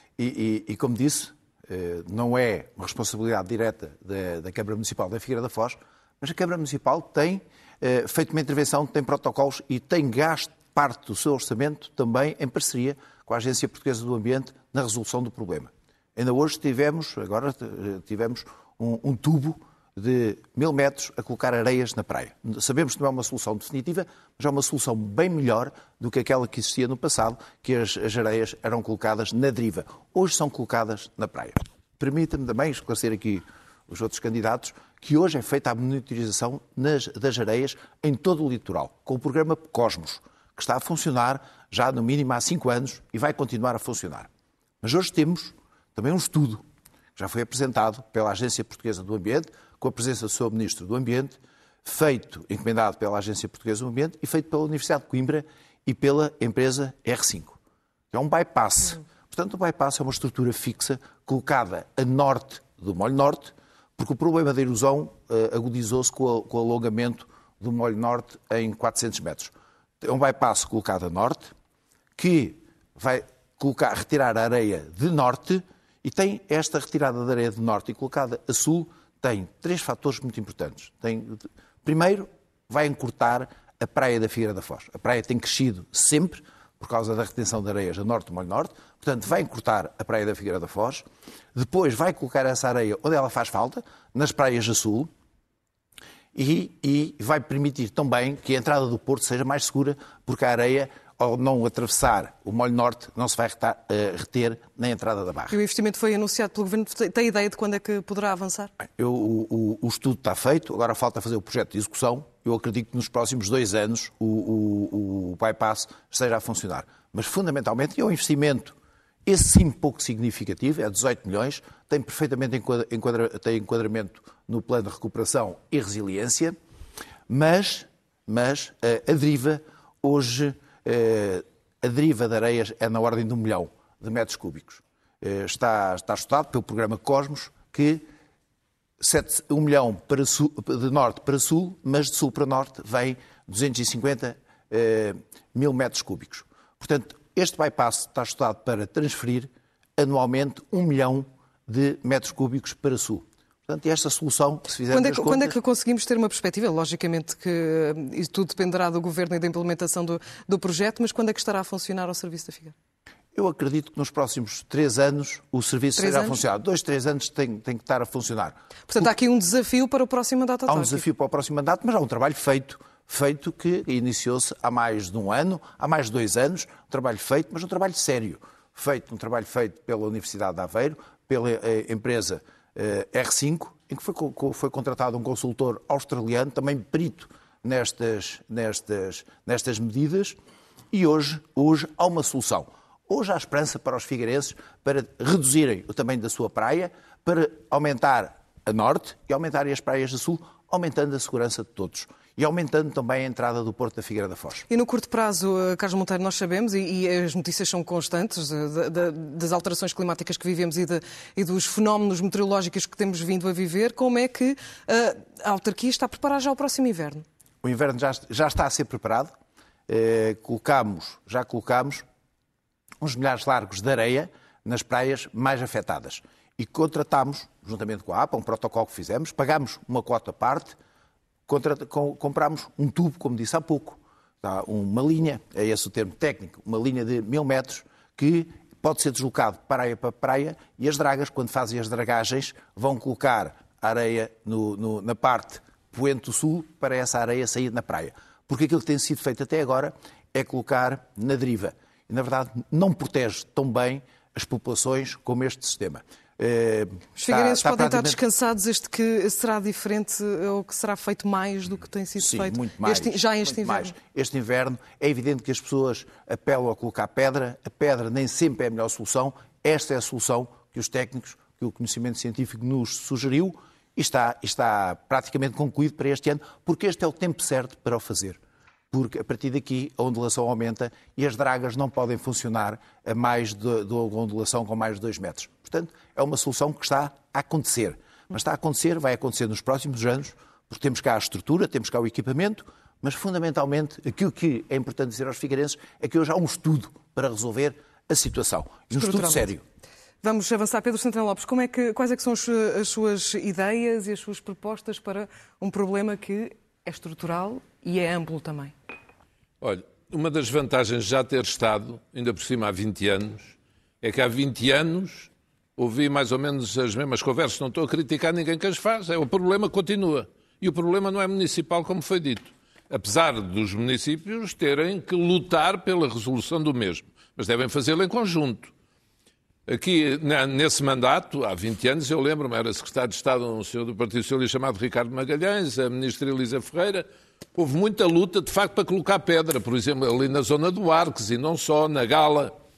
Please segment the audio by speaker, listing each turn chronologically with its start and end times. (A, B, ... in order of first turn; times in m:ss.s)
0:00.2-0:44.3 A
0:44.8-0:46.6 A
0:47.2-0:57.6 A
0:58.1-1:11.5 A
1:12.2-1:35.1 A
1:36.3-1:45.5 A
1:45.5-1:48.7 B
1:48.8-1:58.7 A
1:59.2-2:06.6 A
2:07.3-2:18.0 A
2:19.0-2:35.5 A
2:34.9-2:42.7 B
2:43.3-2:49.1 A
2:46.0-2:46.4 B
2:48.9-2:51.0 B
2:50.7-3:10.4 A
3:10.9-3:24.7 A
3:24.7-3:37.2 B
3:37.6-3:39.3 A
3:39.9-3:42.0 A
3:43.0-3:50.8 A
3:51.5-4:18.2 A
4:17.2-4:23.9 B
4:22.2-4:38.4 A
4:38.9-4:59.6 A
4:58.9-4:59.5 B
5:00.2-5:08.7 B
5:09.6-5:28.7 C
5:29.7-5:42.5 C